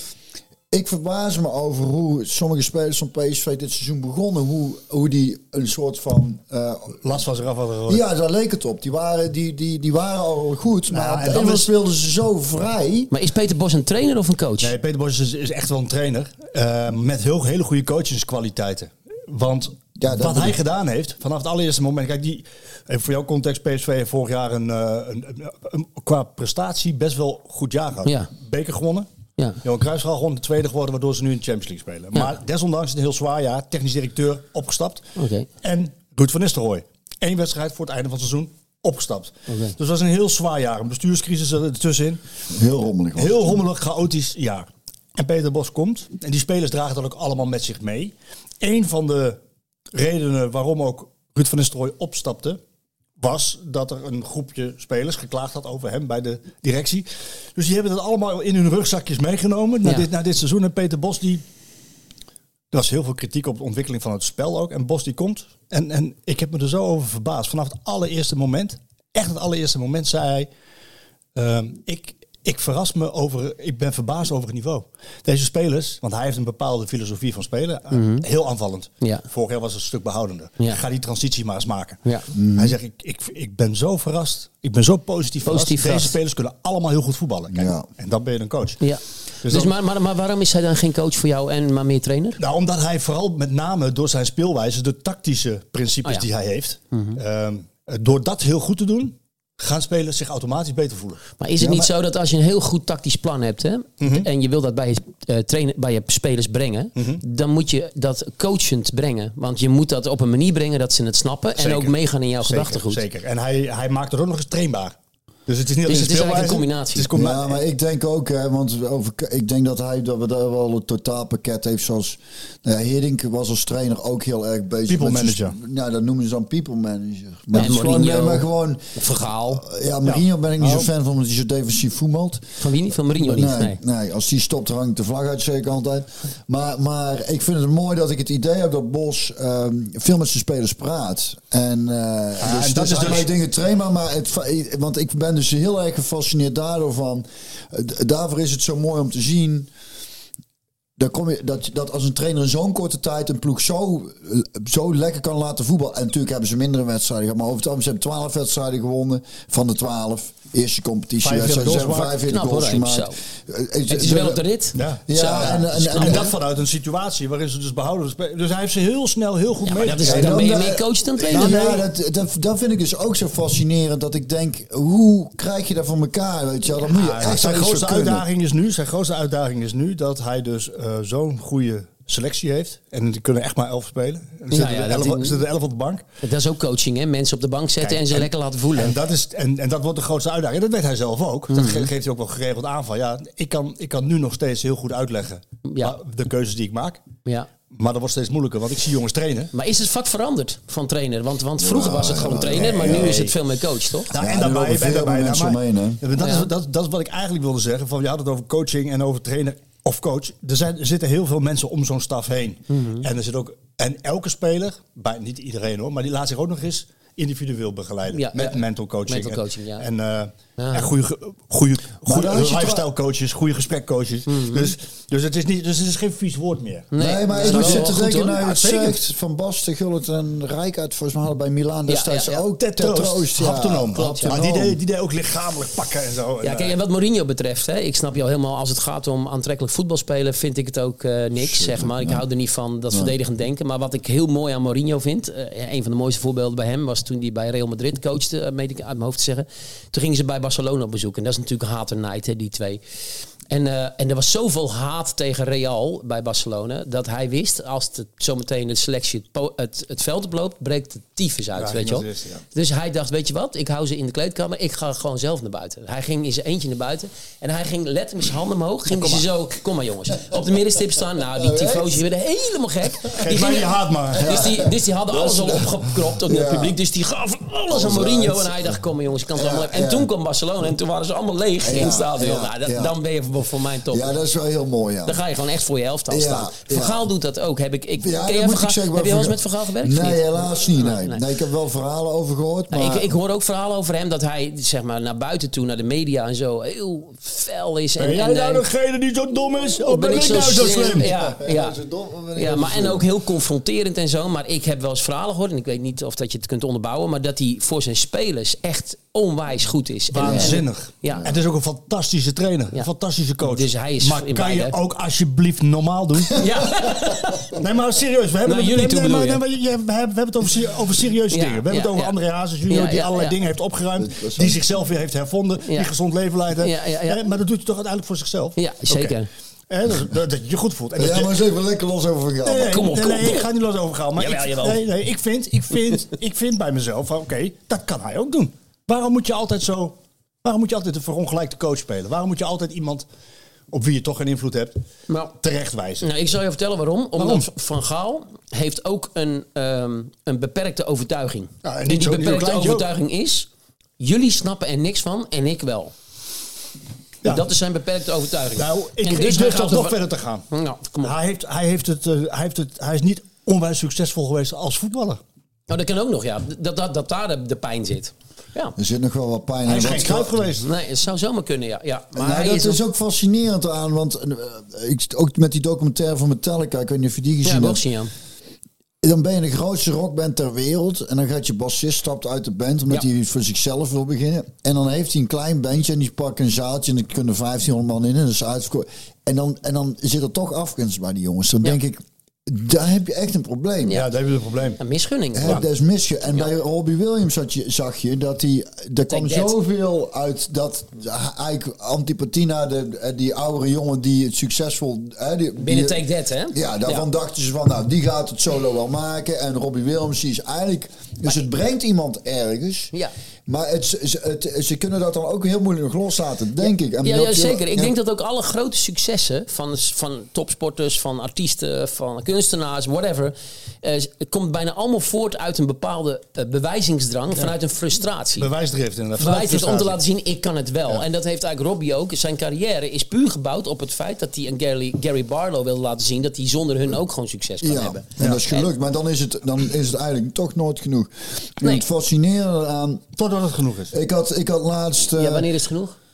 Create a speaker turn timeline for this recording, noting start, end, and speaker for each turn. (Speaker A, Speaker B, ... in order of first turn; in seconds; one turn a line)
Speaker A: 0.7-7.2
Speaker B: 7.0-8.0
Speaker A: 7.9-13.1
Speaker B: 10.9-11.7
Speaker C: 13.1-14.7
Speaker B: 14.6-29.1
Speaker A: 20.0-20.6
Speaker B: 29.6-35.1
Speaker C: 35.2-35.5
Speaker B: 35.6-42.2
Speaker C: 39.5-39.8
Speaker A: 42.5-43.6
Speaker B: 43.2-49.4
Speaker B: 49.9-52.6
Speaker B: 53.2-61.4
Speaker B: 62.7-70.5
Speaker B: 71.3-88.8
Speaker C: 77.9-78.2
Speaker A: 82.3-82.8
Speaker C: 85.5-86.2
Speaker A: 87.5-87.9
Speaker C: 88.8-92.4
Speaker B: 89.4-89.7
Speaker B: 92.4-101.2
Speaker C: 96.9-97.2
Speaker C: 101.4-113.0
Speaker A: 101.6-101.9
Speaker B: 104.0-104.3
Speaker B: 107.0-107.2
Speaker B: 111.6-115.0
Speaker B: 115.5-117.6
Speaker C: 115.9-117.1
Speaker A: 117.1-129.0
Speaker B: 124.9-125.6
Speaker C: 127.5-129.6
Speaker B: 127.6-128.0
Speaker A: 129.5-132.6
Speaker B: 130.0-130.9
Speaker C: 132.6-133.8
Speaker A: 133.1-149.7
Speaker B: 142.4-143.3
Speaker A: 151.0-164.4
Speaker B: 161.2-162.2
Speaker C: 162.2-163.2
Speaker C: 163.9-166.3
Speaker B: 164.8-170.6
Speaker A: 165.1-166.3
Speaker C: 169.6-171.6
Speaker A: 170.0-178.2
Speaker B: 171.3-171.8
Speaker C: 176.8-177.3
Speaker B: 177.2-186.0
Speaker C: 184.5-185.4
Speaker C: 186.2-188.9
Speaker B: 187.8-197.0
Speaker C: 191.5-191.9
Speaker C: 195.7-195.9
Speaker B: 197.7-199.5
Speaker C: 199.5-204.1
Speaker A: 201.6-203.2
Speaker B: 202.4-203.3
Speaker B: 204.1-229.0
Speaker A: 204.2-206.0
Speaker C: 206.2-206.5
Speaker C: 212.7-213.1
Speaker C: 218.1-219.8
Speaker C: 220.6-220.9
Speaker A: 222.1-222.8
Speaker C: 224.3-224.7
Speaker C: 226.9-228.4
Speaker A: 227.0-234.8
Speaker C: 231.9-232.4
Speaker B: 232.6-236.8
Speaker C: 233.9-234.4
Speaker C: 236.4-252.8
Speaker A: 241.4-242.2
Speaker C: 253.5-284.1
Speaker B: 261.6-262.4
Speaker B: 268.9-269.2
Speaker A: 271.4-272.0
Speaker B: 273.1-274.6
Speaker A: 274.1-276.8
Speaker A: 277.7-278.8
Speaker A: 279.3-280.1
Speaker A: 281.6-283.0
Speaker A: 283.9-285.2
Speaker C: 285.1-291.2
Speaker A: 286.1-287.0
Speaker A: 288.0-293.1
Speaker C: 292.7-298.7
Speaker B: 298.0-301.1
Speaker C: 299.9-301.8
Speaker A: 300.7-303.1
Speaker C: 302.4-311.3
Speaker B: 310.1-317.0
Speaker A: 310.2-310.6
Speaker C: 313.4-314.8
Speaker C: 316.4-317.5
Speaker B: 317.5-329.2
Speaker C: 318.4-319.4
Speaker C: 321.3-322.1
Speaker C: 322.7-323.4
Speaker A: 324.0-324.6
Speaker C: 325.6-325.9
Speaker C: 326.6-327.2
Speaker C: 328.6-329.3
Speaker B: 329.7-331.4
Speaker A: 331.0-332.9
Speaker B: 332.4-343.1
Speaker C: 332.7-333.5
Speaker C: 334.2-334.8
Speaker B: 343.7-344.8
Speaker C: 345.1-345.4
Speaker B: 345.4-346.1
Speaker C: 346.0-355.9
Speaker B: 347.2-347.5
Speaker B: 351.6-352.9
Speaker C: 357.2-360.0
Speaker B: 358.6-360.5
Speaker C: 360.5-361.1
Speaker B: 361.0-365.2
Speaker C: 365.7-368.8
Speaker A: 368.8-370.5
Speaker B: 369.7-370.7
Speaker C: 370.6-372.8
Speaker A: 372.2-377.8
Speaker C: 377.4-378.1
Speaker A: 379.0-394.0
Speaker B: 393.9-394.8
Speaker C: 394.8-395.6
Speaker A: 395.4-406.0
Speaker C: 399.1-399.6
Speaker C: 405.6-407.1
Speaker A: 406.5-412.9
Speaker A: 413.5-417.9
Speaker C: 417.0-428.5
Speaker B: 428.4-430.0
Speaker C: 429.2-438.7
Speaker A: 437.6-443.1
Speaker B: 443.2-443.9
Speaker A: 443.9-445.5
Speaker C: 445.2-446.0